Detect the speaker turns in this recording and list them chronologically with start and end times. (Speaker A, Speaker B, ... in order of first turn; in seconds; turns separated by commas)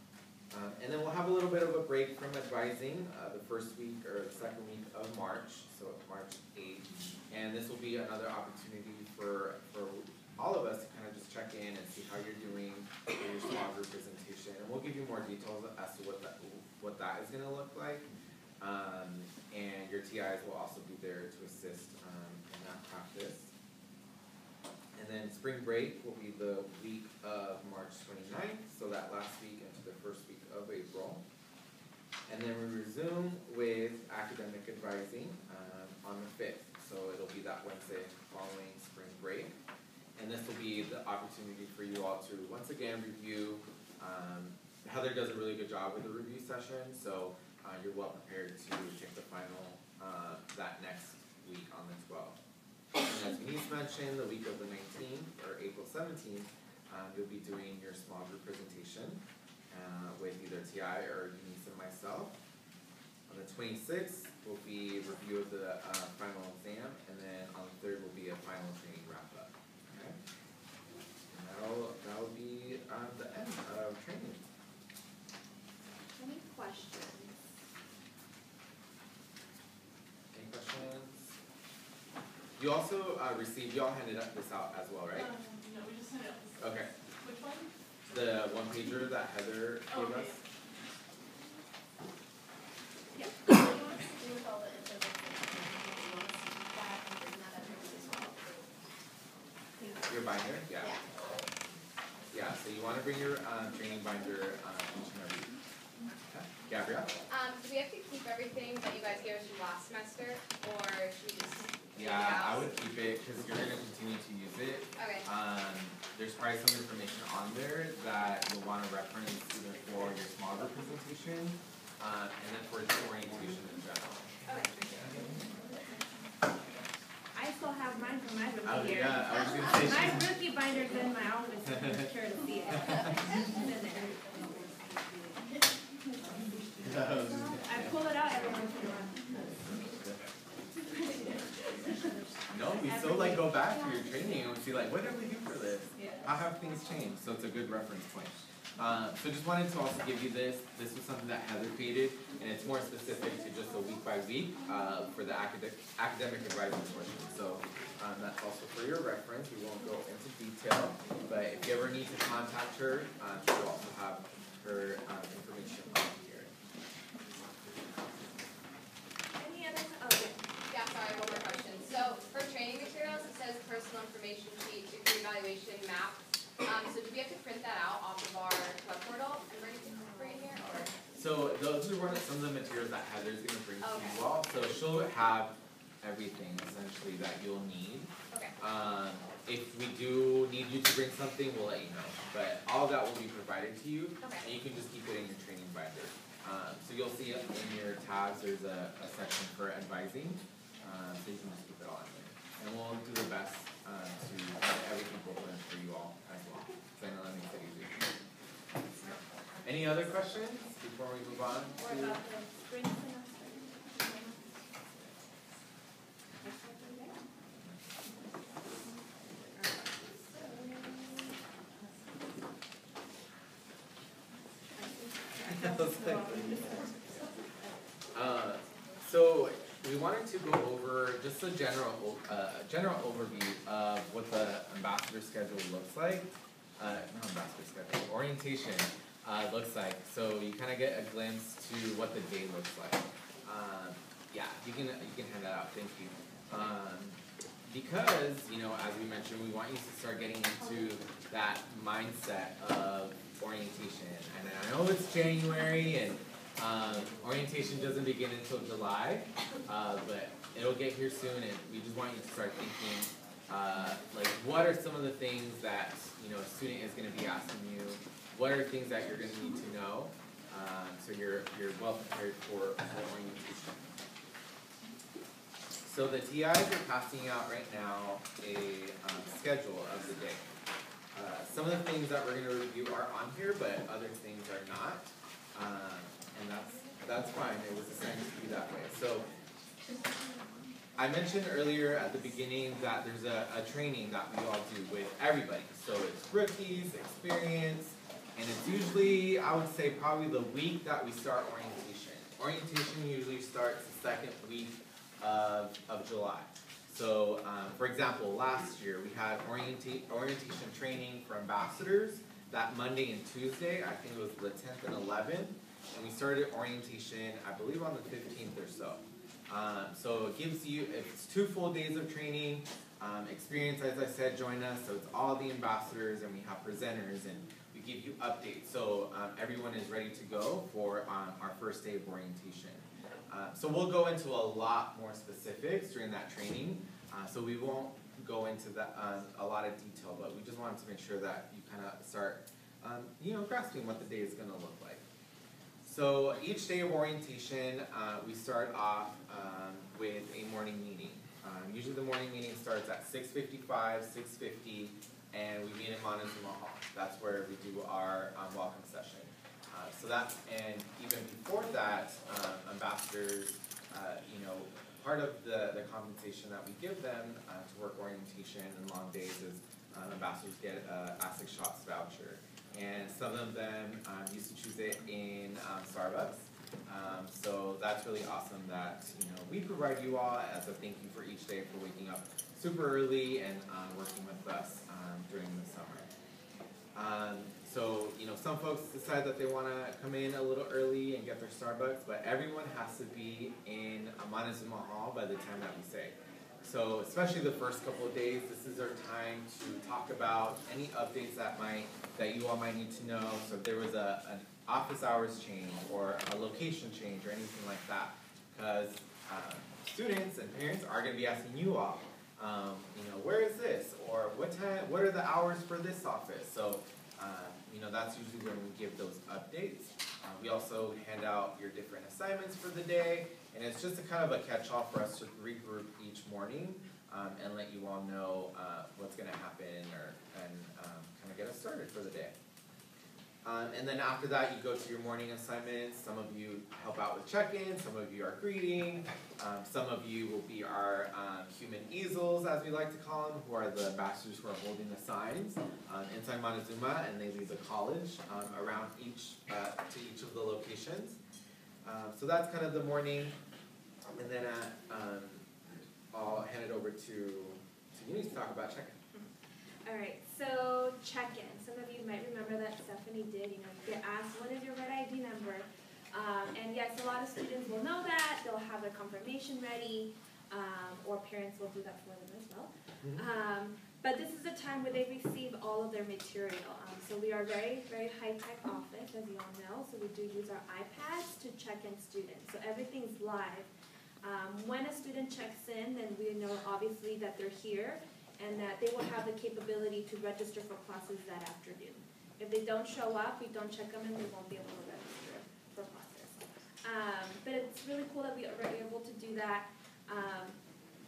Speaker A: 0.5-18.1, Speaker A: 18.6-23.5, Speaker A: 24.9-31.2, Speaker A: 32.3-39.6, Speaker A: 40.2-52.4, Speaker A: 53.0-62.4, Speaker A: 63.3-70.2, Speaker A: 71.3-74.4, Speaker B: 76.1-77.4, Speaker A: 80.3-81.3, Speaker A: 82.6-85.3, Speaker C: 85.1-87.7, Speaker A: 86.6-86.9, Speaker A: 88.1-90.4, Speaker C: 89.9-90.3, Speaker D: 93.5-98.6, Speaker A: 100.0-101.0, Speaker A: 102.3-105.6, Speaker A: 106.3-107.1, Speaker D: 107.3-112.7, Speaker A: 112.0-124.3, Speaker D: 115.0-115.3, Speaker B: 124.5-124.8, Speaker A: 125.0-125.3, Speaker B: 127.3-135.4, Speaker A: 128.7-130.3, Speaker B: 136.3-139.3, Speaker A: 136.8-138.0, Speaker A: 139.8-140.2, Speaker B: 140.8-142.1, Speaker A: 142.5-166.5, Speaker B: 142.8-143.6, Speaker B: 169.4-170.4, Speaker D: 170.7-180.9, Speaker A: 181.1-208.1, Speaker D: 183.8-184.2, Speaker A: 208.9-212.2, Speaker B: 211.8-215.2, Speaker B: 216.4-217.2, Speaker B: 219.4-222.2, Speaker B: 224.7-225.8, Speaker A: 225.4-226.6, Speaker B: 226.6-227.7, Speaker A: 228.1-273.9, Speaker A: 275.8-280.4, Speaker A: 281.1-289.3, Speaker A: 291.0-345.0, Speaker A: 345.8-386.1, Speaker A: 386.9-432.3, Speaker A: 433.4-451.2, Speaker A: 451.8-453.4, Speaker A: 454.1-455.5, Speaker A: 456.1-459.0, Speaker B: 459.9-483.7, Speaker B: 484.2-500.6